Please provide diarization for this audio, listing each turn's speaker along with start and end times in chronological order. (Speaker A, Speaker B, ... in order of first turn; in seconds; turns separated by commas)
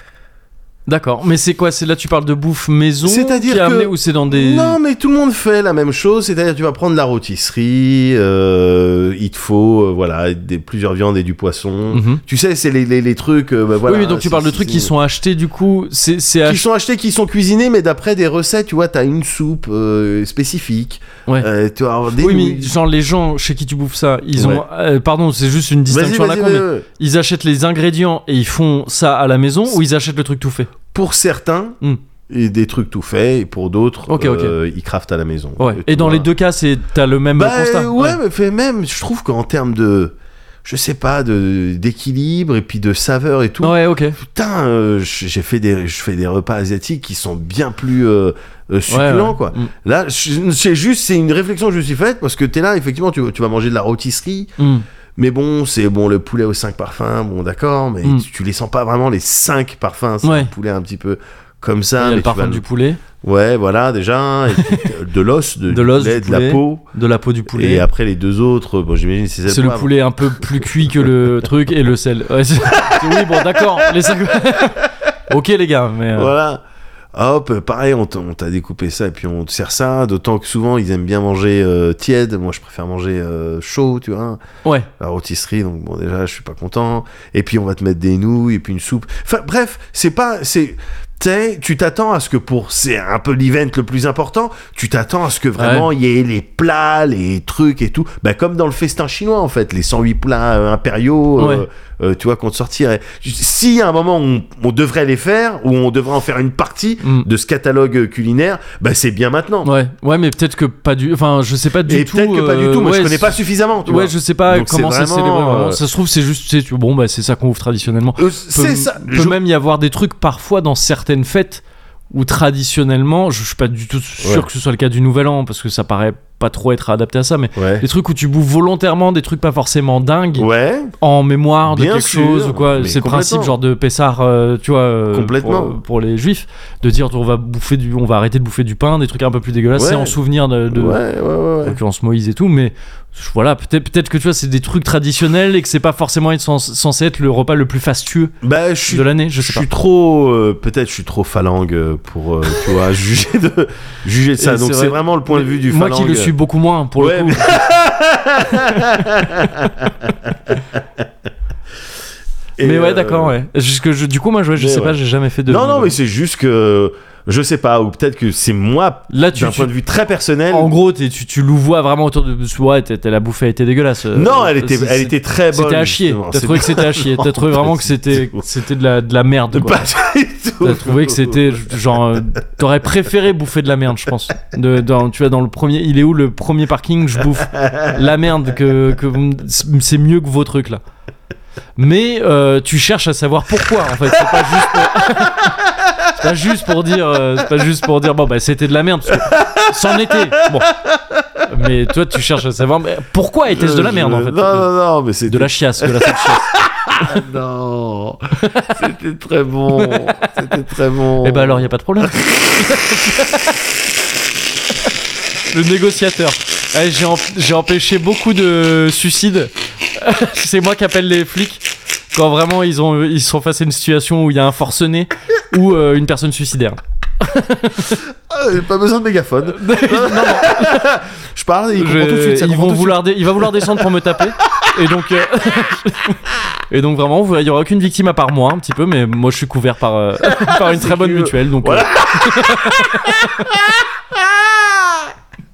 Speaker A: 0.9-4.8, Speaker B: 3.0-14.9, Speaker A: 11.9-12.2, Speaker A: 13.9-16.6, Speaker B: 16.4-22.7, Speaker A: 22.2-30.7, Speaker B: 24.4-24.6, Speaker B: 25.9-26.9, Speaker B: 30.9-36.3, Speaker A: 34.1-34.6, Speaker A: 35.6-38.2, Speaker B: 37.3-54.5, Speaker A: 43.6-44.2, Speaker A: 48.9-49.7, Speaker A: 54.6-54.9, Speaker B: 55.2-62.6, Speaker A: 60.2-60.5, Speaker A: 62.0-63.0, Speaker B: 63.2-66.8, Speaker A: 64.6-64.9, Speaker A: 65.7-67.8, Speaker B: 67.5-71.1, Speaker A: 69.5-76.3, Speaker B: 72.7-74.9, Speaker B: 76.1-76.6, Speaker B: 77.1-84.4, Speaker B: 85.0-109.7, Speaker A: 95.6-95.9, Speaker A: 101.4-101.7, Speaker A: 107.0-107.3, Speaker A: 109.6-130.5, Speaker B: 111.8-115.8, Speaker B: 118.2-119.4, Speaker B: 127.6-127.9, Speaker B: 130.4-130.9, Speaker A: 131.0-141.0, Speaker B: 131.7-133.6, Speaker B: 135.1-135.8, Speaker B: 139.8-140.2, Speaker B: 140.7-141.8, Speaker A: 141.6-148.3, Speaker B: 148.4-156.3, Speaker A: 148.9-149.7, Speaker A: 154.4-157.5, Speaker B: 157.0-161.1, Speaker B: 162.6-163.3, Speaker A: 162.6-166.0, Speaker B: 164.6-170.8, Speaker A: 169.1-169.7, Speaker A: 170.5-179.8, Speaker B: 174.1-178.5, Speaker B: 179.5-181.8, Speaker A: 180.6-190.8, Speaker B: 187.4-188.0, Speaker A: 191.8-200.7, Speaker B: 194.4-194.9, Speaker B: 195.5-195.9, Speaker B: 199.1-201.2, Speaker A: 201.5-204.7, Speaker B: 203.5-212.3, Speaker A: 205.3-206.5, Speaker A: 208.4-208.7, Speaker A: 209.8-210.3, Speaker A: 211.2-213.5, Speaker A: 215.5-228.0, Speaker B: 228.1-234.9, Speaker A: 229.4-230.9, Speaker A: 231.8-236.2, Speaker A: 236.7-243.5, Speaker B: 240.2-245.1